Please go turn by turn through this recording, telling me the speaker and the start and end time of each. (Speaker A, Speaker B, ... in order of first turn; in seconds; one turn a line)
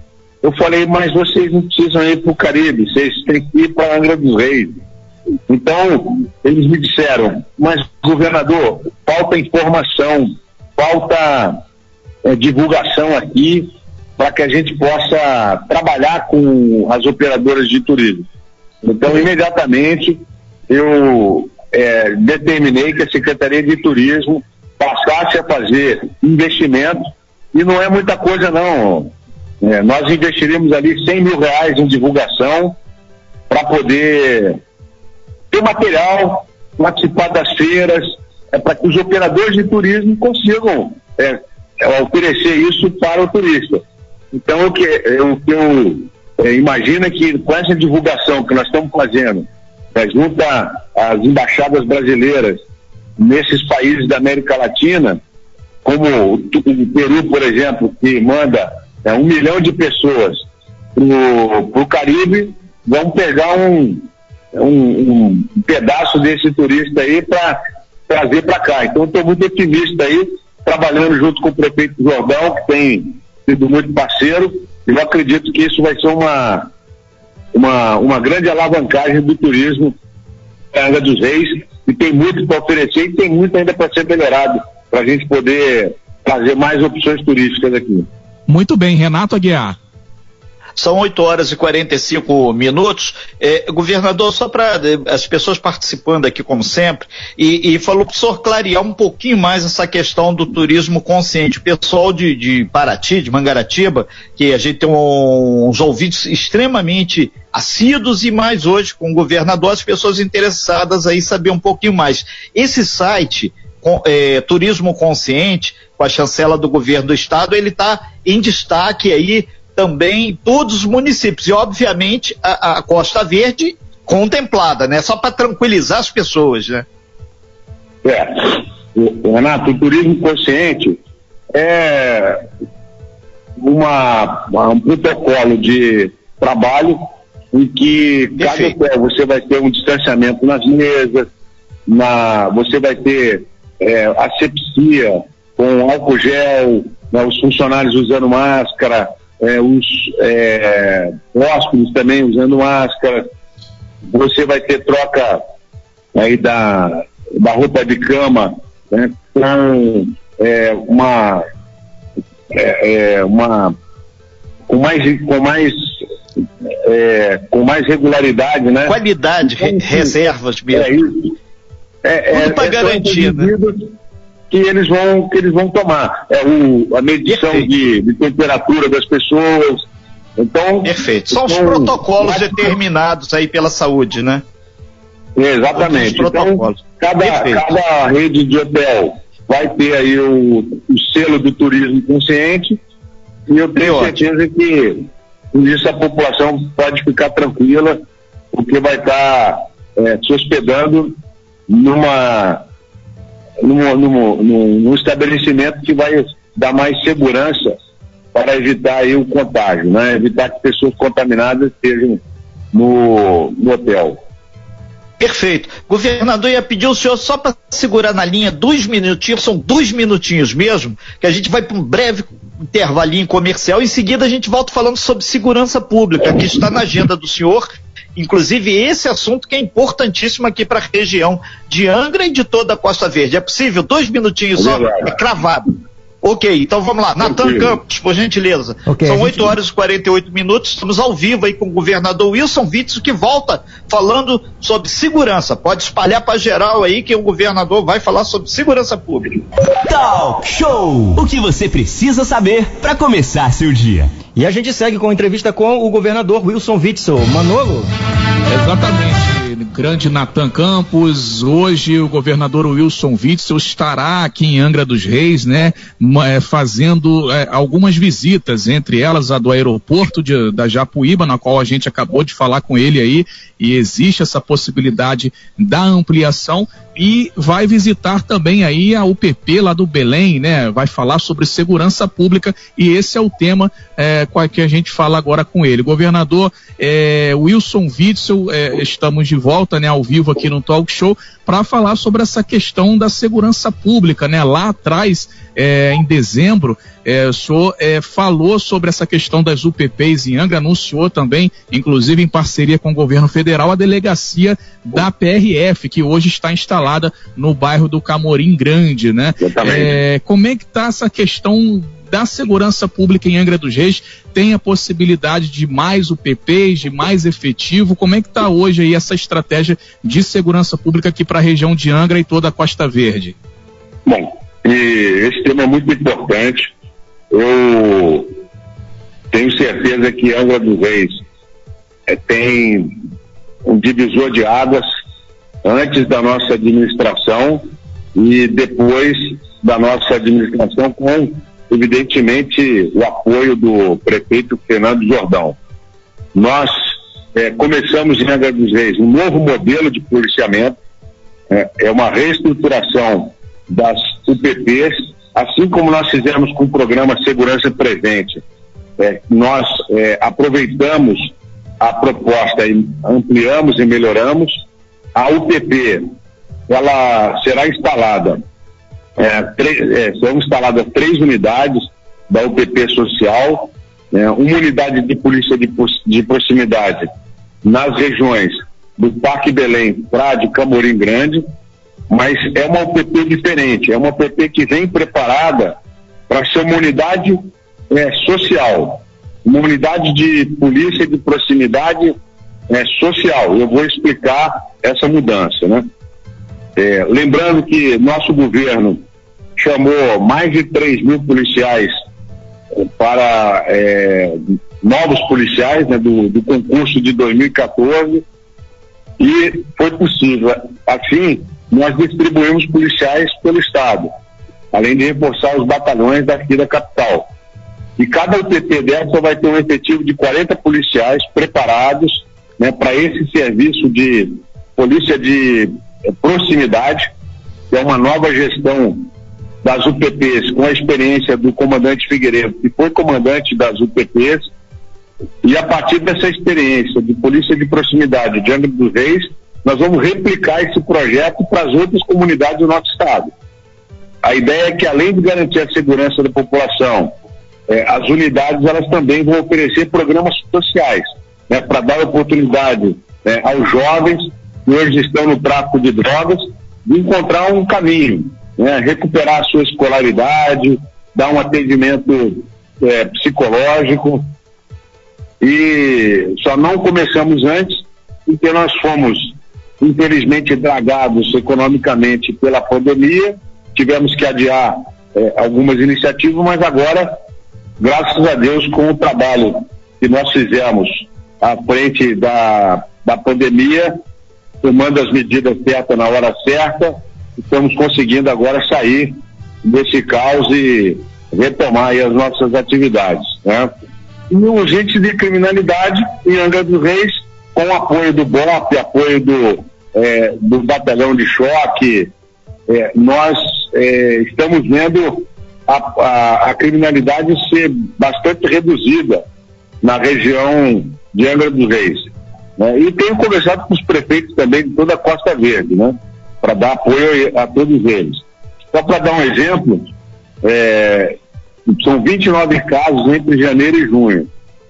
Speaker A: 0.4-4.8
Speaker A: 5.5-11.6
Speaker A: 12.2-18.3
Speaker A: 18.8-32.8
Speaker A: 33.5-34.6
Speaker A: 35.5-52.6
Speaker A: 53.2-55.2
Speaker A: 55.8-60.5
Speaker A: 61.0-76.7
Speaker A: 77.5-79.9
Speaker A: 80.7-88.1
Speaker B: 88.5-89.8
Speaker C: 90.8-126.8
Speaker A: 128.0-131.0
Speaker A: 131.5-132.4
Speaker A: 133.6-137.0
Speaker A: 137.5-141.3
Speaker C: 138.4-138.8
Speaker A: 141.9-153.3
Speaker A: 154.1-155.4
Speaker A: 156.2-161.4
Speaker A: 162.5-163.8
Speaker A: 164.7-170.1
Speaker C: 168.9-171.1
Speaker A: 170.7-171.3
Speaker A: 172.0-173.9
Speaker C: 172.3-173.5
Speaker A: 174.5-179.9
Speaker C: 177.3-177.7
Speaker A: 180.4-182.8
Speaker C: 180.8-184.4
Speaker A: 185.4-192.8
Speaker C: 185.8-187.6
Speaker A: 193.5-198.0
Speaker C: 193.8-194.2
Speaker A: 198.5-201.2
Speaker A: 201.7-202.6
Speaker A: 203.6-207.8
Speaker A: 208.3-212.2
Speaker A: 212.7-214.2
Speaker C: 215.2-249.4
Speaker A: 234.6-235.2
Speaker A: 237.2-237.8
Speaker D: 238.9-239.5
Speaker E: 249.8-254.2
Speaker D: 254.3-257.9
Speaker B: 258.5-323.4
Speaker A: 309.4-310.0
Speaker A: 324.1-326.7
Speaker A: 327.3-328.3
Speaker A: 329.3-331.2
Speaker A: 332.1-332.9
Speaker A: 333.7-334.9
Speaker A: 335.6-337.6
Speaker A: 338.1-345.6
Speaker A: 346.3-350.8
Speaker A: 351.5-358.4
Speaker A: 359.0-364.5
Speaker A: 365.1-366.0
Speaker A: 366.7-368.4
Speaker A: 369.2-377.1
Speaker A: 377.6-381.4
Speaker A: 382.1-385.8
Speaker A: 386.3-392.2
Speaker A: 392.7-395.9
Speaker A: 396.8-399.0
Speaker A: 399.6-401.9
Speaker A: 402.7-408.2
Speaker A: 409.2-414.1
Speaker A: 414.7-417.3
Speaker A: 418.0-427.1
Speaker A: 427.7-429.1
Speaker A: 429.6-434.5
Speaker A: 435.4-443.3
Speaker A: 444.2-447.1
Speaker A: 447.7-464.3
Speaker A: 465.4-477.1
Speaker A: 477.8-484.0
Speaker A: 484.6-493.7
Speaker A: 494.3-502.1
Speaker A: 502.7-509.2
Speaker A: 509.8-519.9
Speaker A: 520.4-521.2
Speaker A: 521.7-524.3